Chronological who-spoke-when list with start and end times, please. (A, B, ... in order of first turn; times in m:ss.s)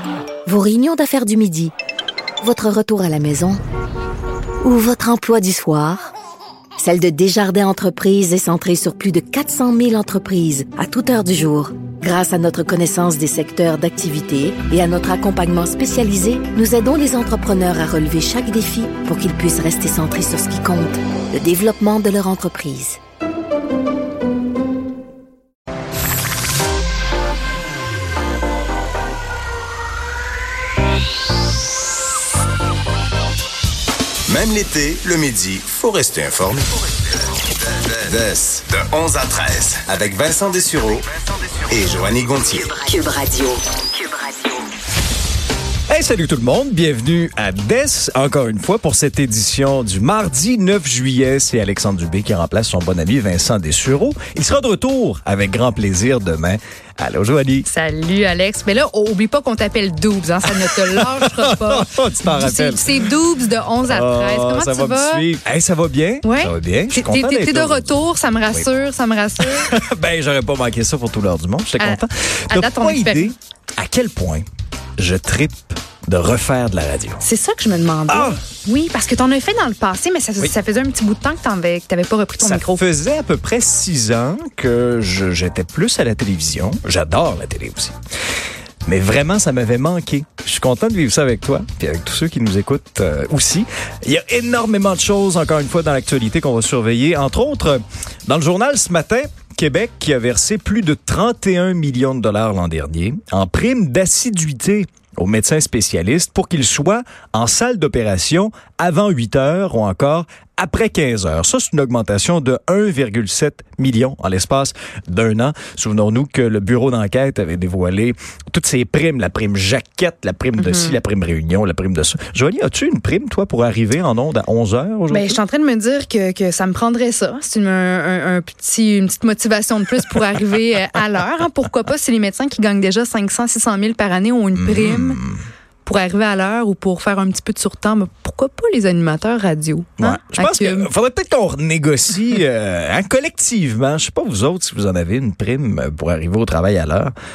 0:00.5-0:01.7 A
0:02.4-0:03.6 A
0:04.6-0:06.1 A
0:06.8-0:23.0 A
0:34.3-0:36.6 B
0:34.4-0:34.9 C
0:35.5-0:36.5 C
0:37.8-0:41.0 B
0:38.0-0:40.9 C
0:41.7-0:42.7 B
0:41.7-0:42.3 C
0:42.7-0:44.6 A
0:45.9-0:57.7 C
0:57.7-1:05.2 D
1:00.5-1:03.0 C
1:03.8-1:08.7 C
1:06.2-1:09.7 D
1:09.4-1:14.4 C
1:11.8-1:13.3 D
1:15.0-1:17.2 C
1:17.2-1:22.8 D
1:18.1-1:18.4 C
1:22.4-1:28.0 C
1:28.9-2:05.4 C
2:00.6-2:01.0 D
2:05.1-2:15.2 D
2:14.6-2:15.4 C
2:15.8-2:20.9 D
2:20.0-2:27.1 C